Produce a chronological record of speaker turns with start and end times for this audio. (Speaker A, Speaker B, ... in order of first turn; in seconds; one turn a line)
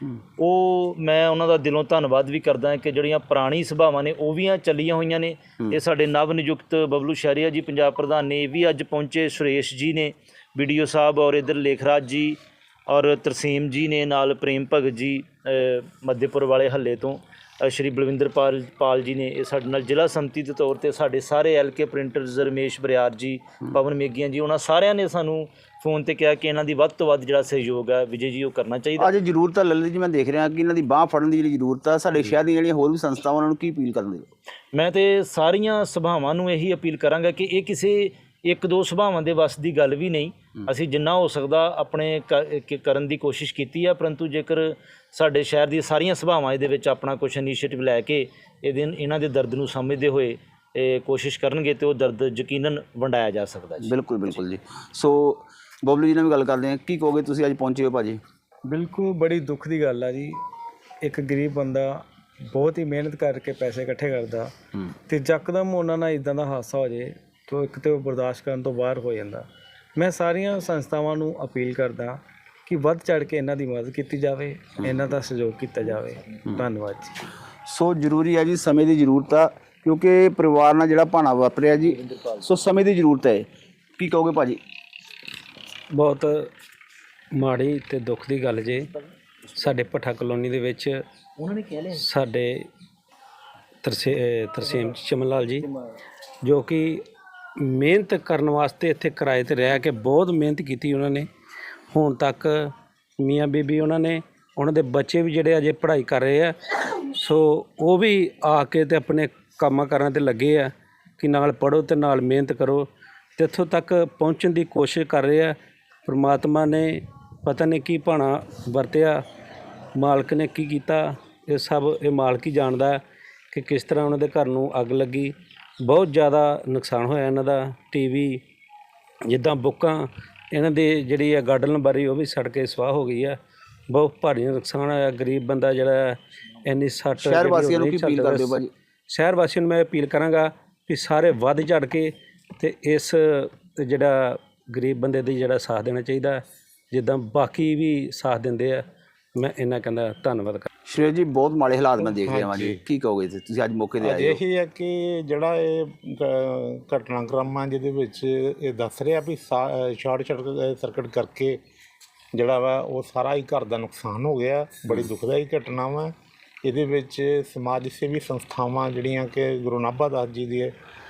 Speaker A: 0.4-29.1
Speaker B: 29.0-34.3
Speaker A: 34.7-53.9
Speaker B: 53.8-58.2
Speaker C: 58.6-60.4
Speaker C: 61.0-64.5
Speaker C: 65.0-77.2
Speaker B: 77.7-83.5
Speaker B: 84.0-84.6
Speaker D: 85.9-86.5
Speaker D: 87.3-88.9
Speaker D: 89.5-91.0
Speaker A: 91.4-91.9
Speaker D: 91.9-92.7
Speaker D: 93.8-95.7
Speaker D: 96.4-97.0
Speaker D: 97.6-101.3
Speaker D: 101.9-106.5
Speaker D: 107.2-119.2
Speaker D: 120.0-123.0
Speaker D: 123.5-128.4
Speaker D: 129.3-133.3
Speaker D: 133.9-148.8
Speaker B: 137.2-138.7
Speaker D: 149.3-150.7
Speaker B: 150.9-154.4
Speaker E: 152.2-152.8
Speaker E: 154.0-161.6
Speaker E: 162.3-166.1
Speaker E: 166.6-170.7